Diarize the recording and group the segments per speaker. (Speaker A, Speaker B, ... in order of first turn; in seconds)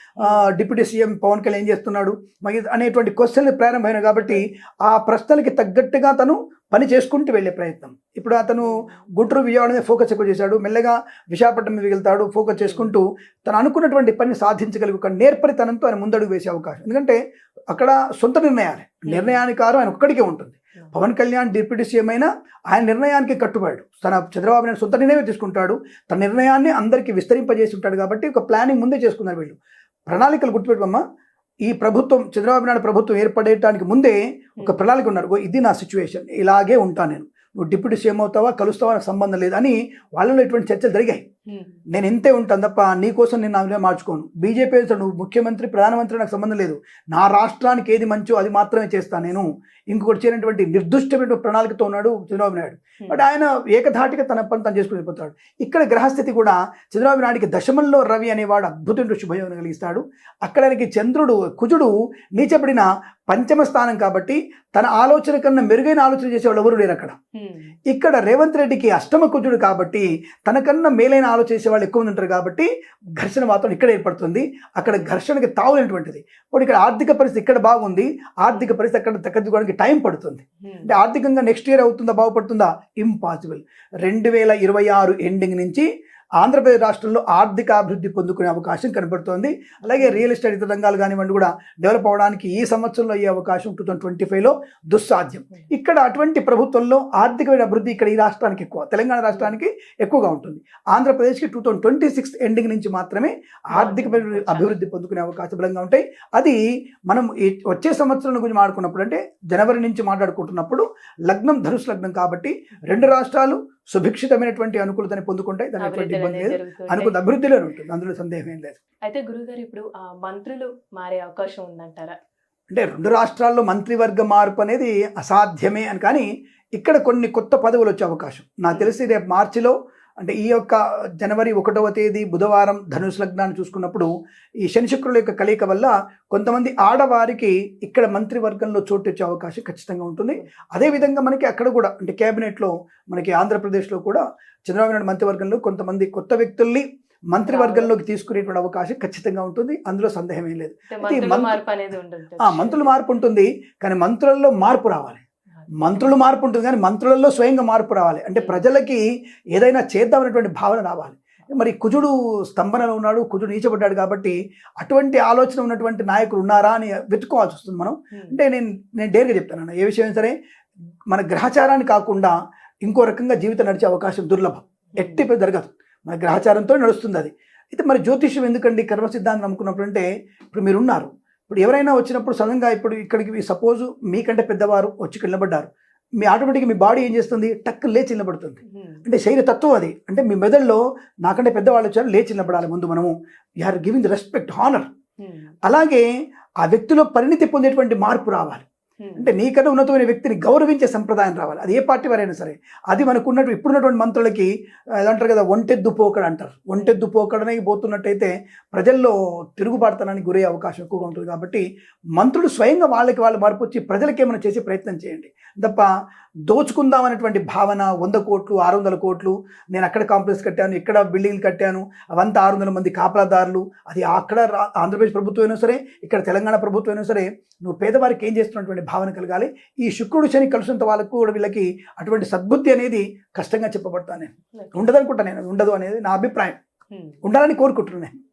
Speaker A: 0.2-0.5, 8.6-8.9, 12.5-12.9, 19.1-19.4, 41.5-41.8, 67.4-67.8, 74.8-75.1, 78.5-78.8, 80.6-80.9, 90.0-90.2, 103.8-104.8, 115.8-117.2, 119.1-122.2, 140.4-141.1, 147.4-147.9, 150.9-152.9, 168.1-168.4, 175.0-175.2, 188.7-189.0, 195.2-195.6, 199.0-199.3, 234.6-234.9, 236.9-237.2
Speaker B: 0.2-17.2, 17.7-29.6, 30.1-31.0, 31.7-41.2, 41.9-67.2, 67.9-85.9, 86.4-118.8, 122.7-134.1, 134.6-151.6, 152.4-155.2, 155.8-159.0, 159.5-170.3, 171.1-185.7, 186.2-194.9, 195.6-196.1, 196.6-198.7, 199.2-204.5, 205.0-211.6, 212.2-215.9, 216.5-236.6, 237.2-238.1